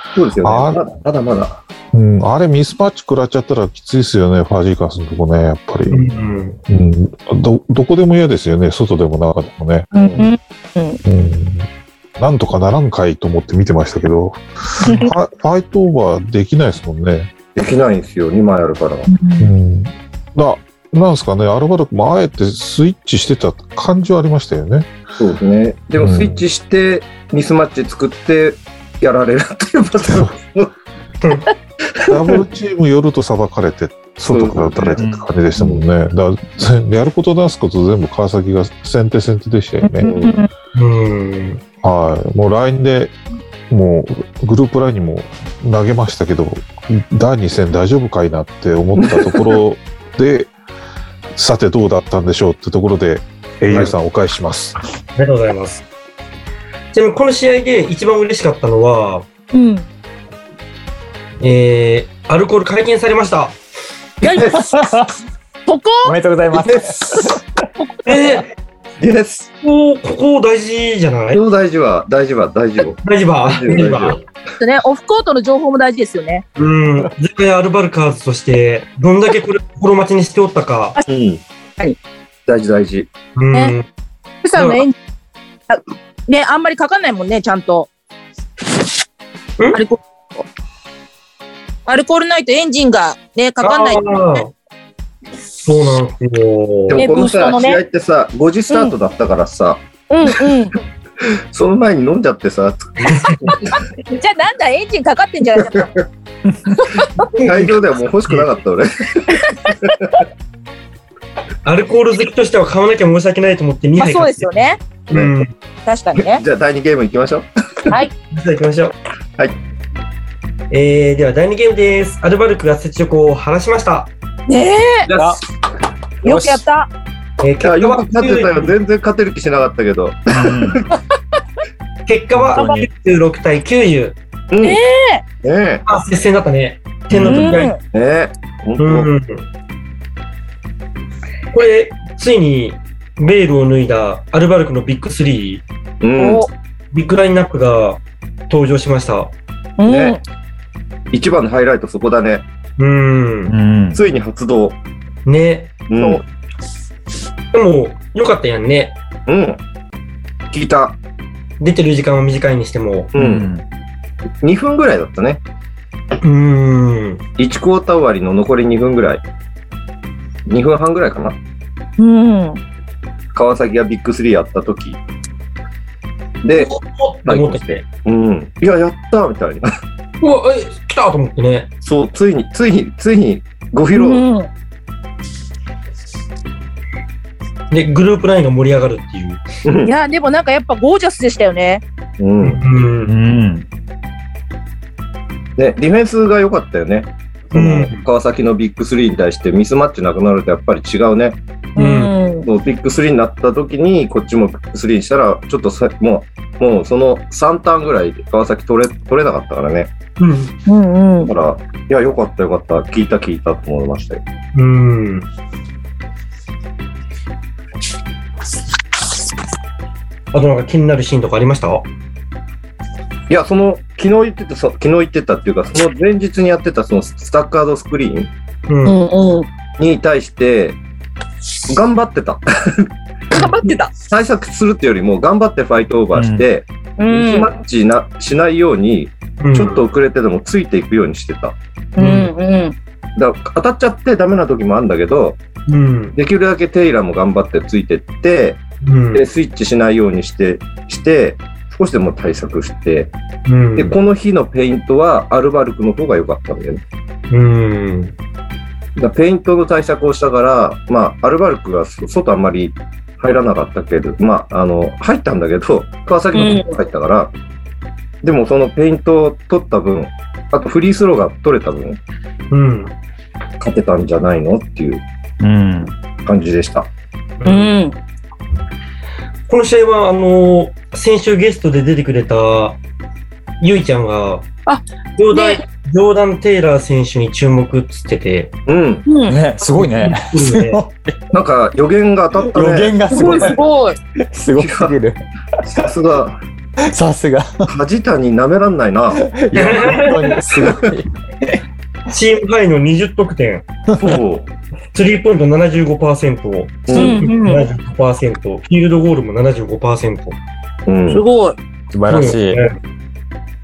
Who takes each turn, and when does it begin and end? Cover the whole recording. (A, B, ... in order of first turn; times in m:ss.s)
0:00.1-0:01.6 A
0:00.4-0:00.8 B
0:01.9-0:06.0 B
0:05.9-0:06.6 C
0:06.7-0:09.9 B
0:09.9-0:11.0 D
0:10.0-0:10.3 A
0:11.0-0:17.3 B
0:14.8-0:15.1 D
0:17.5-0:19.1 A
0:19.1-0:19.5 D
0:19.4-0:24.9 B
0:25.2-0:30.7 A
0:26.0-0:26.4 B
0:32.1-0:32.4 A
0:32.1-0:40.1 B
0:34.3-0:35.0 A
0:35.0-0:35.3 E
0:35.6-0:35.8 A
0:39.8-0:40.5 D
0:40.0-0:40.4 A
0:40.7-0:41.6 C
0:41.8-0:43.2 B
0:43.7-0:50.5 B
0:49.0-0:49.5 A
0:51.3-0:54.8 B
0:55.2-0:55.8 C
0:56.9-0:59.2 C
0:59.5-0:59.9 D
1:01.4-1:03.6 C
1:04.2-1:04.8 A
1:04.4-1:05.1 E
1:05.7-1:06.1 D
1:06.0-1:07.4 E
1:06.5-1:07.3 A
1:08.0-1:08.5 C
1:09.0-1:09.5 A
1:09.6-1:11.4 C
1:11.3-1:14.3 A
1:13.0-1:14.2 C
1:14.6-1:16.4 D
1:16.6-1:21.0 C
1:21.1-1:21.4 A
1:22.5-1:23.1 A
1:23.4-1:23.9 C
1:24.4-1:24.9 D
1:24.6-1:24.8 C
1:25.7-1:27.9 D
1:29.7-1:30.4 D
1:31.8-1:34.4 D
1:33.6-1:34.5 C
1:35.6-1:37.0 C
1:36.9-1:40.5 A
1:37.0-1:37.8 D
1:40.1-1:40.8 D
1:41.3-1:43.8 A
1:43.0-1:43.6 C
1:43.5-1:45.9 D
1:45.6-1:45.9 A
1:46.9-1:47.3 D
1:47.3-1:48.5 C
1:47.4-1:49.9 A
1:49.6-1:49.9 D
1:51.6-1:55.5 C
1:54.0-1:54.8 D
1:55.8-1:56.4 D
1:56.1-1:58.0 A
1:58.3-1:58.9 C
2:00.7-2:04.1 C
2:04.5-2:05.1 D
2:05.0-2:05.4 A
2:05.1-2:05.4 E
2:06.2-2:06.9 D
2:06.2-2:06.6 E
2:07.4-2:08.7 C
2:07.6-2:10.8 A
2:10.3-2:10.8 E
2:12.0-2:14.2 C
2:12.4-2:12.8 E
2:12.6-2:12.9 D
2:14.5-2:14.8 A
2:14.6-2:15.2 D
2:15.4-2:15.8 A
2:15.8-2:17.7 C
2:17.1-2:17.6 E
2:17.2-2:17.8 D
2:17.9-2:19.1 A
2:18.8-2:19.4 C
2:21.5-2:25.6 C
2:26.0-2:26.4 A
2:26.2-2:26.5 D
2:26.9-2:29.3 C
2:29.8-2:30.2 D
2:29.8-2:30.2 A
2:31.1-2:32.4 A
2:32.8-2:33.5 C
2:33.5-2:34.0 E
2:33.9-2:34.8 A
2:35.2-2:35.8 C
2:35.9-2:36.2 A
2:35.9-2:36.2 D
2:37.5-2:38.9 C
2:39.3-2:39.6 A
2:40.5-2:41.0 A
2:41.6-2:43.1 C
2:43.1-2:43.5 A
2:43.2-2:43.6 E
2:44.4-2:45.4 A
2:46.2-2:47.2 C
2:47.4-2:49.2 A
2:50.5-2:51.4 A
2:52.0-2:52.6 D
2:53.3-2:55.0 A
2:56.4-2:56.7 A
2:56.5-2:57.8 C
2:57.2-2:59.7 A
3:00.2-3:01.7 C
3:01.8-3:04.2 A
3:03.9-3:04.5 D
3:07.7-3:09.4 C
3:09.6-3:09.9 A
3:09.8-3:11.8 D
3:12.2-3:12.6 A
3:12.4-3:13.1 C
3:13.0-3:13.6 E
3:15.6-3:21.4 A
3:17.5-3:18.0 C
3:21.8-3:22.1 C
3:21.8-3:22.5 D
3:22.4-3:29.9 A
3:30.2-3:30.5 C
3:30.6-3:31.3 D
3:31.2-3:34.2 A
3:34.5-3:35.3 C
3:40.3-3:41.8 C
3:43.3-3:48.3 A
3:48.7-3:49.0 C
3:48.8-3:49.5 D
3:49.8-3:50.8 A
3:51.7-3:52.8 A
3:53.3-3:53.9 D
3:53.9-4:01.6 A
3:56.1-3:56.4 E
3:57.0-3:57.5 D
3:59.4-3:59.8 C
4:02.0-4:02.7 D
4:02.0-4:02.3 C
4:03.2-4:05.4 A
4:05.7-4:06.2 C
4:06.1-4:08.6 A
4:08.8-4:09.2 C
4:09.1-4:13.1 A
4:13.4-4:14.0 C
4:13.8-4:16.8 A
4:17.3-4:18.1 C
4:19.0-4:27.3 A
4:26.3-4:26.7 D
4:28.2-4:32.0 A
4:32.5-4:32.9 C
4:33.6-4:35.0 A
4:35.4-4:35.9 E
4:36.2-4:36.9 A
4:37.4-4:37.7 C
4:37.4-4:38.0 D
4:39.5-4:42.8 C
4:43.6-4:44.5 C
4:44.6-4:45.6 D
4:45.2-4:48.5 C
4:48.6-4:49.1 A
4:49.0-4:49.4 D
4:49.2-4:51.1 E
4:49.7-4:50.8 C
4:51.3-4:53.6 A
4:52.4-4:53.6 E
4:53.1-4:54.0 D
4:54.3-4:55.2 E
4:54.6-4:55.0 A
4:55.6-4:56.4 A
4:56.9-4:57.7 E
4:57.7-4:59.8 A
4:59.1-5:01.6 E
4:59.5-5:00.3 C
5:00.6-5:00.8 A
5:02.1-5:03.6 C
5:04.0-5:04.5 A
5:04.9-5:10.4 C
5:06.9-5:07.3 A
5:06.9-5:07.7 D
5:10.9-5:11.2 A
5:11.1-5:11.6 D
5:11.9-5:12.6 E
5:12.1-5:12.7 C